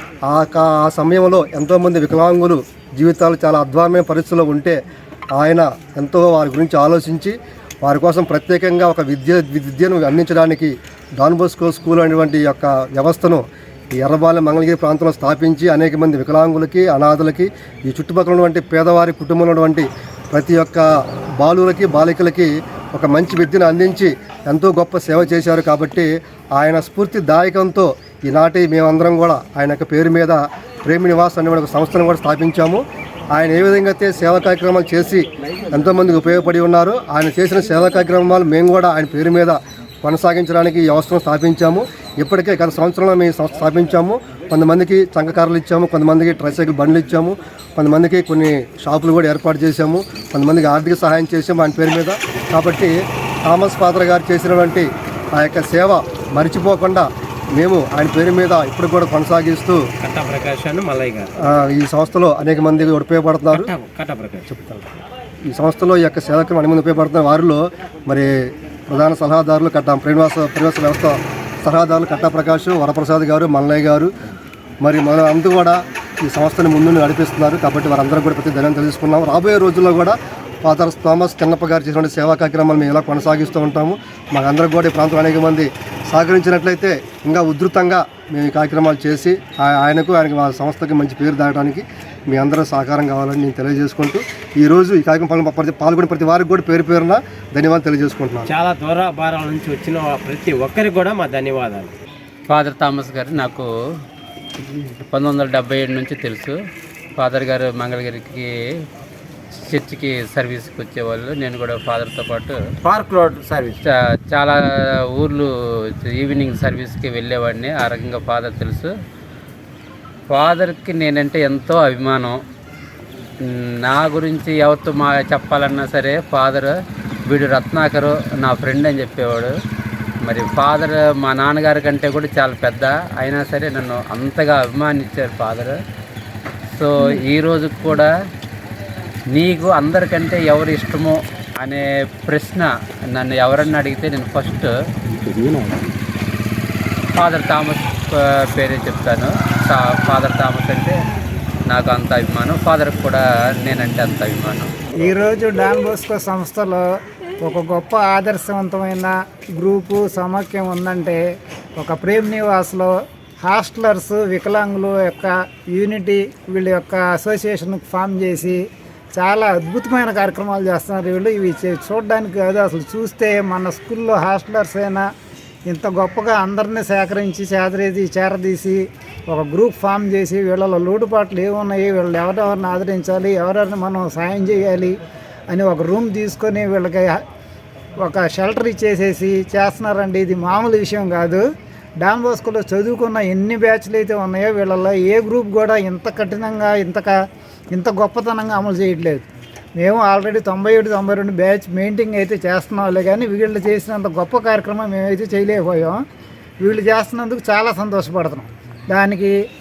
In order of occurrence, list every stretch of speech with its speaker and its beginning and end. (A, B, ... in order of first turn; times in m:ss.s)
0:00.3-0:04.8 A
0:05.3-0:13.4 A
0:14.0-0:20.8 A
0:21.4-0:32.8 A
0:33.3-0:52.9 A
0:53.5-0:59.8 A
1:00.0-1:01.3 B
1:01.4-1:03.7 A
1:03.5-1:04.9 B
1:05.5-1:08.3 A
1:08.9-1:14.1 A
1:14.8-1:38.5 A
1:38.4-1:41.9 B
1:42.5-1:43.7 C
1:44.7-1:46.6 C
1:47.2-1:48.5 C
1:49.7-1:52.6 C
1:52.8-1:53.8 B
1:53.8-1:54.5 C
1:55.1-1:55.5 C
1:56.0-1:58.9 C
2:00.3-2:02.4 C
2:03.8-2:06.7 C
2:07.3-2:09.5 C
2:10.2-2:15.8 C
2:16.8-2:18.1 C
2:19.3-2:24.7 C
2:27.2-2:31.0 C
2:31.7-2:34.7 C
2:35.0-2:36.8 D
2:37.4-2:41.2 D
2:41.8-2:42.9 D
2:43.4-2:48.6 D
2:49.1-2:55.0 D
2:55.7-3:04.9 D
3:05.5-3:07.2 D
3:08.0-3:11.4 D
3:12.0-3:17.1 D
3:17.7-3:26.0 D
3:26.6-3:29.3 D